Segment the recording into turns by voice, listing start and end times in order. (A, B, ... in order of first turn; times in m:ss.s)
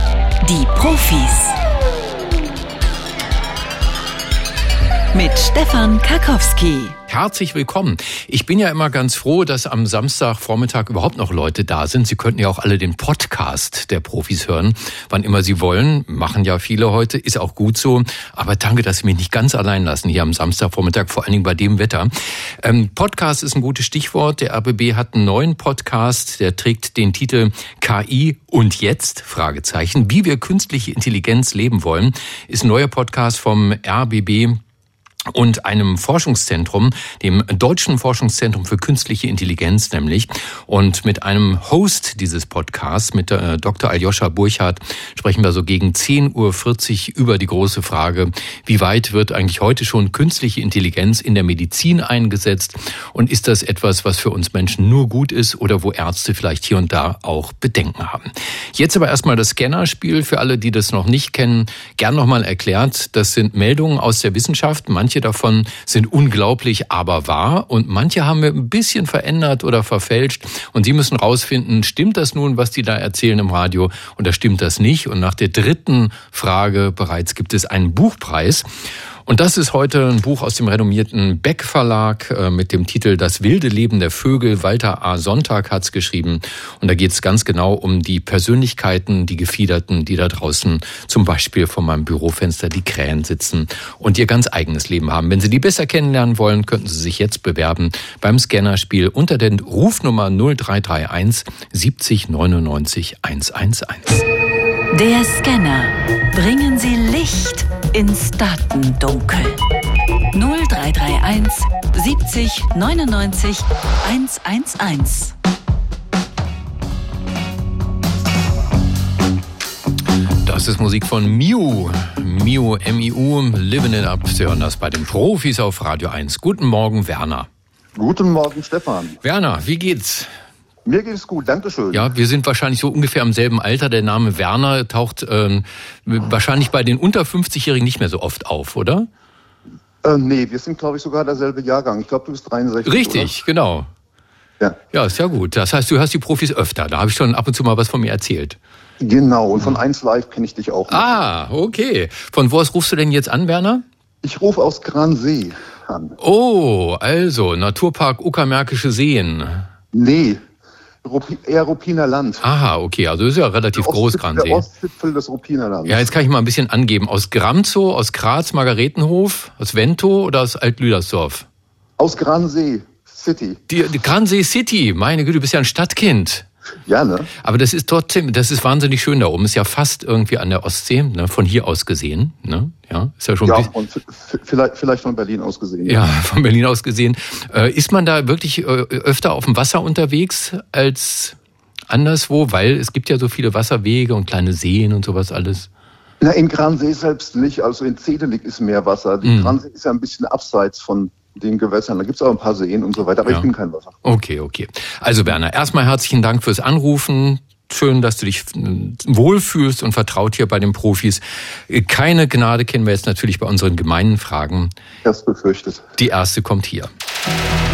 0:00.4-0:01.6 A
0:05.1-0:07.0 A
0:07.1-0:34.6 B
0:35.3-1:18.6 B
1:19.2-1:44.2 B
1:44.9-1:49.6 A
1:50.3-1:55.3 A
2:00.4-2:07.5 B
2:07.9-2:09.2 C
2:09.2-2:10.3 B
2:10.8-2:12.1 C
2:11.9-2:19.1 B
2:20.0-2:23.3 C
2:22.8-2:23.9 B
2:24.9-2:28.6 B
2:29.0-2:31.1 C
2:30.9-2:33.8 B
2:34.2-2:36.1 C
2:36.2-2:39.7 B
2:39.9-2:40.5 C
2:41.0-2:42.4 C
2:42.4-2:44.6 B
2:43.8-2:46.1 C
2:45.8-2:51.4 B
2:52.0-2:53.6 C
2:53.7-2:56.5 B
2:56.8-2:57.3 C
2:57.4-3:03.7 B
3:03.4-3:06.0 C
3:05.8-3:11.4 B
3:11.9-3:15.7 B
3:16.2-3:23.9 C
3:19.2-3:19.6 B
3:24.0-3:34.7 B
3:35.0-3:35.8 C
3:36.0-3:36.9 B